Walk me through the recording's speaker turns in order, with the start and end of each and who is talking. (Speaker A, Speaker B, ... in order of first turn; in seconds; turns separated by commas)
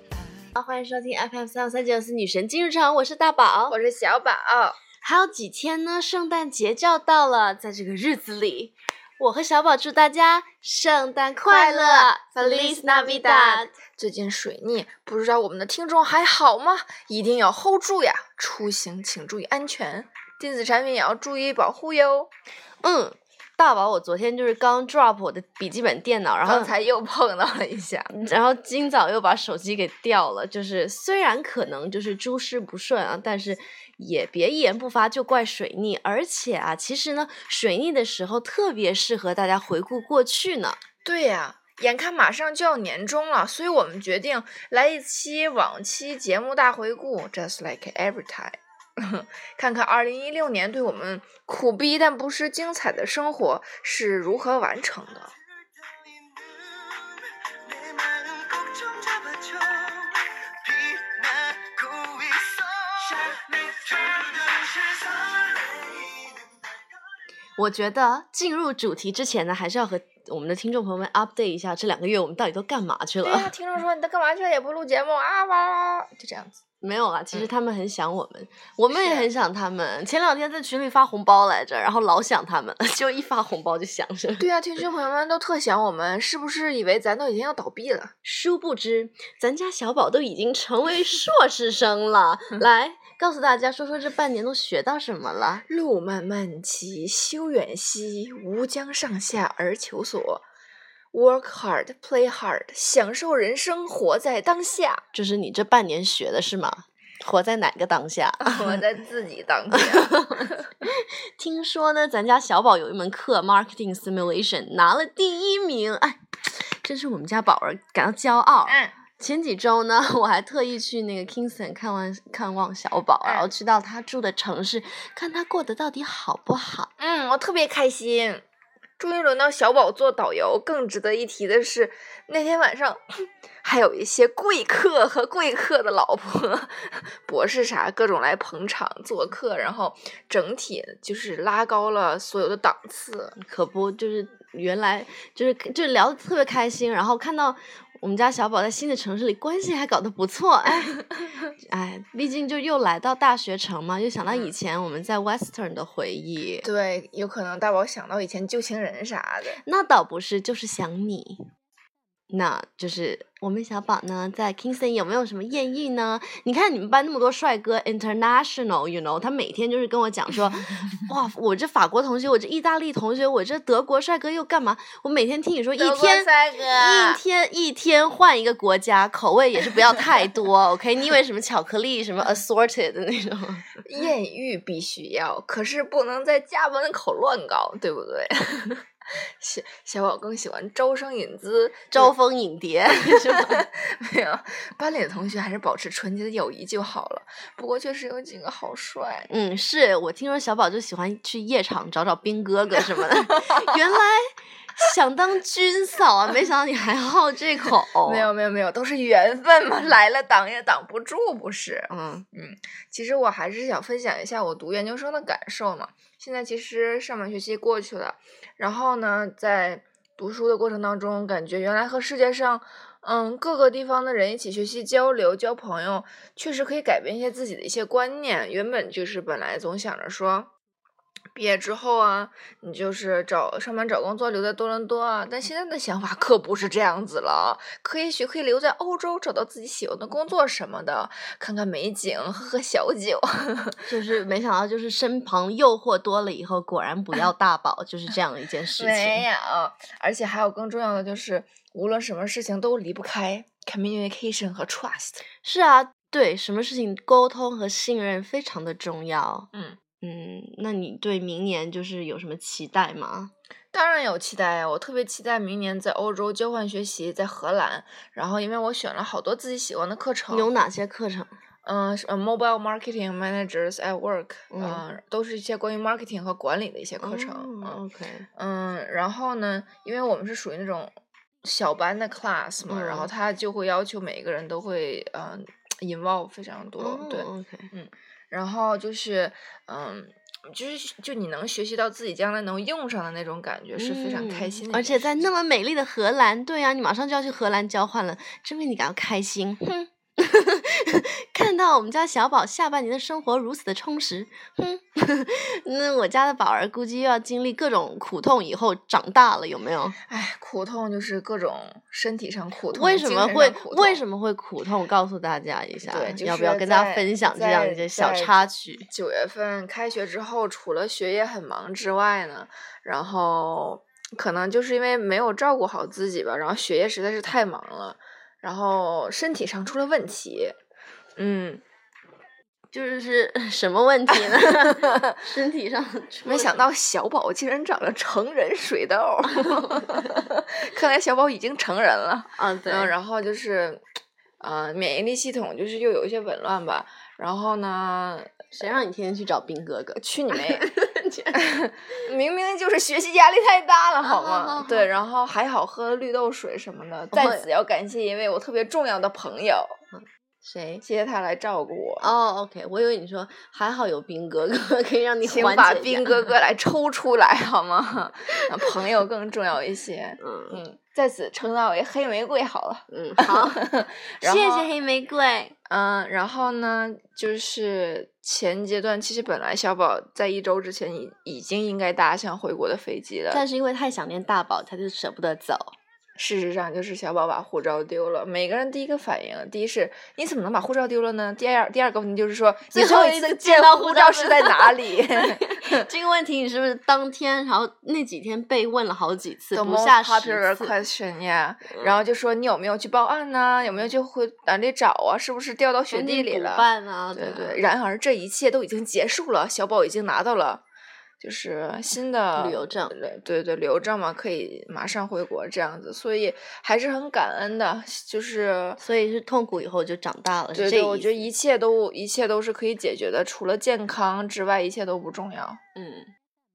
Speaker A: 0.6-3.8, Speaker B: 3.7-4.8, Speaker A: 5.0-13.7, Speaker B: 11.4-22.3, Speaker A: 22.8-26.7, Speaker B: 26.4-28.1, Speaker A: 28.1-40.8, Speaker B: 41.0-55.3, Speaker C: 56.2-66.3, Speaker A: 67.6-73.5, Speaker B: 73.2-76.6, Speaker A: 76.8-84.5, Speaker B: 78.9-79.3, Speaker B: 84.4-88.1, Speaker A: 88.2-95.6, Speaker B: 95.7-100.4, Speaker B: 101.1-105.0, Speaker A: 105.1-108.8, Speaker B: 108.4-110.7, Speaker A: 109.7-126.9, Speaker B: 118.7-118.9, Speaker B: 123.2-123.5, Speaker B: 127.0-128.4, Speaker B: 129.0-133.0, Speaker B: 133.6-143.3, Speaker A: 143.4-151.0, Speaker A: 151.6-156.7, Speaker B: 154.2-154.5, Speaker B: 156.6-159.6, Speaker A: 159.6-161.5, Speaker A: 162.3-183.8, Speaker B: 175.8-177.2, Speaker B: 183.8-192.1, Speaker A: 191.9-193.7, Speaker B: 193.0-199.3, Speaker A: 199.3-208.3, Speaker B: 202.9-203.7, Speaker B: 208.0-230.5, Speaker A: 211.9-212.2, Speaker B: 231.3-243.8, Speaker A: 243.8-249.2, Speaker B: 248.8-255.2, Speaker A: 255.4-259.5, Speaker A: 260.0-263.3, Speaker B: 263.7-270.5, Speaker A: 270.3-271.3, Speaker B: 271.6-277.8, Speaker A: 274.5-274.8, Speaker A: 277.0-278.2, Speaker B: 278.4-280.9, Speaker B: 281.4-295.3, Speaker A: 282.7-283.1, Speaker A: 286.8-287.7, Speaker A: 293.8-310.0, Speaker B: 310.1-314.0, Speaker A: 312.7-318.9, Speaker B: 315.9-330.6, Speaker B: 331.2-331.6, Speaker A: 332.7-336.6, Speaker B: 334.1-335.2, Speaker B: 336.2-343.8, Speaker A: 339.5-340.1, Speaker A: 342.4-342.9, Speaker B: 344.4-348.6, Speaker A: 348.5-351.6, Speaker B: 350.0-350.7, Speaker B: 351.3-359.8, Speaker A: 354.0-354.9, Speaker A: 357.1-357.5, Speaker A: 359.9-360.8, Speaker B: 360.8-362.1, Speaker A: 362.0-366.2, Speaker B: 365.2-374.7, Speaker A: 370.2-370.6, Speaker A: 372.9-373.6, Speaker A: 374.2-375.5, Speaker B: 375.7-383.4, Speaker A: 383.3-385.7, Speaker B: 386.2-395.9, Speaker A: 392.7-400.7, Speaker B: 399.5-410.6, Speaker A: 401.7-402.0, Speaker A: 405.9-407.6, Speaker B: 411.2-418.8, Speaker A: 412.4-412.9, Speaker A: 418.8-421.3, Speaker B: 420.5-425.6, Speaker A: 425.7-426.1